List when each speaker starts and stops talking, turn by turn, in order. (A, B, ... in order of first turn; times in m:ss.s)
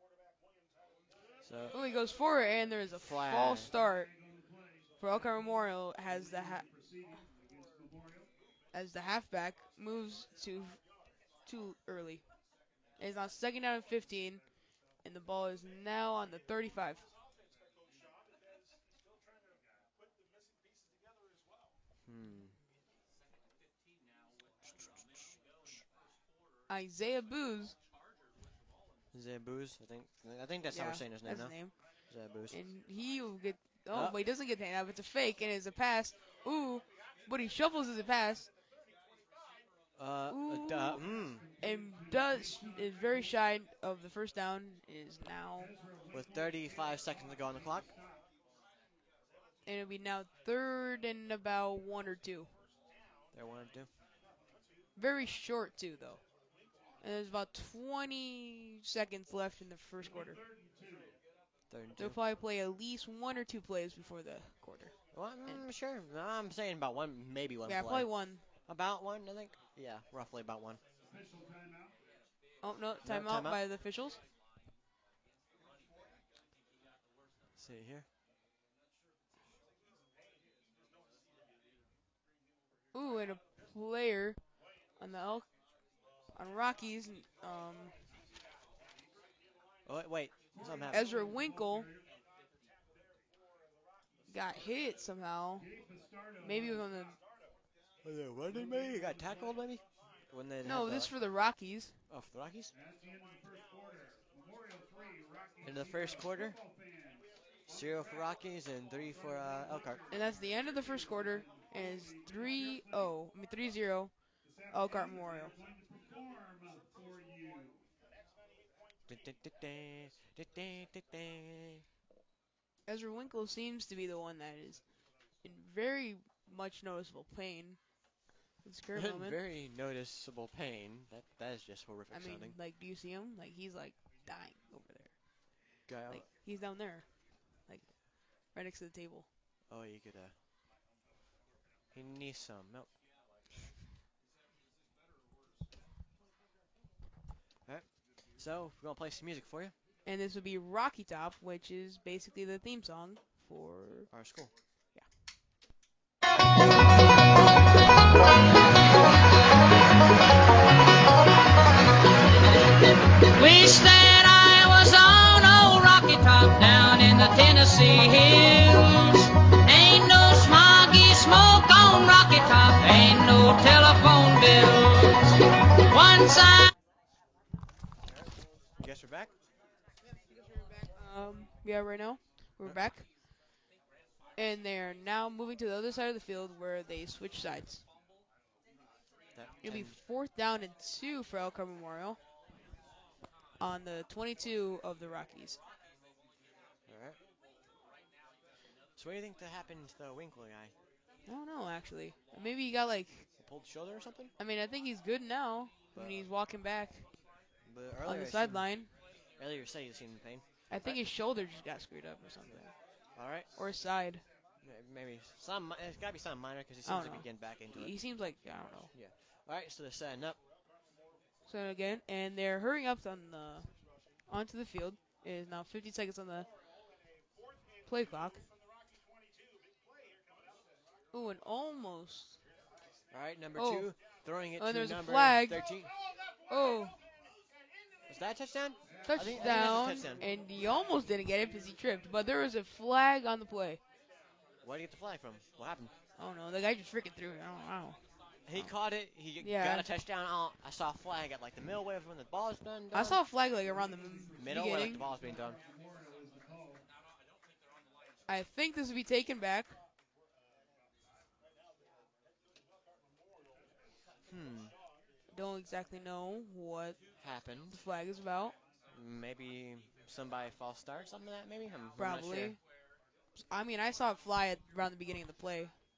0:01.4-0:01.8 A
0:01.7-0:04.1 B
0:02.9-0:03.7 A
0:05.0-0:06.7 B
0:08.7-0:10.8 B
0:11.4-0:12.2 B
0:13.0-0:14.4 B
0:15.0-0:17.0 B
0:22.0-0:22.6 A
0:26.7-0:27.8 B
0:29.1-0:31.5 A
0:30.7-0:31.7 B
0:32.1-0:32.6 A
0:32.5-0:38.5 B
0:40.0-0:41.5 A
0:40.3-0:41.0 B
0:41.6-0:45.7 B
0:46.1-0:47.9 A
0:49.6-0:52.5 B
0:53.3-0:53.9 A
0:55.0-0:56.2 B
0:57.0-1:00.4 B
1:01.7-1:02.2 A
1:02.0-1:04.9 B
1:05.1-1:08.1 A
1:07.6-1:08.4 B
1:08.6-1:10.8 A
1:12.6-1:14.2 B
1:13.0-1:13.6 A
1:17.6-1:18.0 A
1:22.9-1:24.4 B
1:25.0-1:25.5 B
1:26.3-1:27.9 B
1:29.8-1:31.0 A
1:30.9-1:31.9 B
1:34.3-1:35.7 B
1:36.4-1:37.2 B
1:38.0-1:41.1 A
1:40.6-1:41.9 B
1:42.1-1:42.7 A
1:45.6-1:46.6 A
1:47.7-1:50.0 A
1:50.1-1:54.1 B
1:54.7-1:55.5 B
1:59.1-2:01.8 A
2:02.9-2:04.8 B
2:05.4-2:07.8 B
2:08.6-2:09.4 B
2:08.9-2:12.6 A
2:12.1-2:15.1 B
2:15.9-2:16.2 A
2:16.1-2:17.1 B
2:17.6-2:18.0 B
2:18.5-2:19.2 B
2:19.7-2:20.3 A
2:21.9-2:22.9 A
2:27.7-2:29.7 A
2:30.0-2:34.1 B
2:34.1-2:34.5 A
2:43.4-2:56.7 C
2:58.8-2:59.3 A
3:00.3-3:03.1 B
3:04.4-3:07.8 B
3:09.4-3:10.0 A
3:09.6-3:12.2 B
3:13.6-3:15.6 B
3:16.9-3:17.2 A
3:19.0-3:20.7 A
3:21.2-3:23.3 B
3:23.4-3:24.3 A
3:24.4-3:27.1 B
3:25.9-3:26.2 A
3:27.6-3:28.7 A
3:28.0-3:28.9 B
3:29.4-3:31.0 A
3:30.7-3:32.7 B
3:33.2-3:33.5 A
3:33.5-3:34.2 B
3:34.6-3:37.9 A
3:36.8-3:38.9 B
3:38.9-3:40.4 A
3:41.5-3:43.7 B
3:44.3-3:46.5 B
3:47.8-3:48.4 B
3:51.1-3:52.4 B
3:53.1-3:55.9 A
3:53.6-3:53.9 B
3:54.6-3:55.6 B
3:56.5-3:57.0 B
3:58.1-4:00.2 A
3:59.0-4:03.8 B
4:04.6-4:05.9 A
4:06.2-4:08.0 B
4:08.5-4:13.2 A
4:09.4-4:09.9 B
4:12.9-4:15.0 B
4:14.4-4:15.6 A
4:18.3-4:19.7 B
4:24.3-4:24.7 A
4:25.3-4:27.0 B
4:27.2-4:27.8 A
4:27.7-4:28.5 B
4:28.9-4:32.6 A
4:32.0-4:32.6 B
4:33.3-4:35.7 B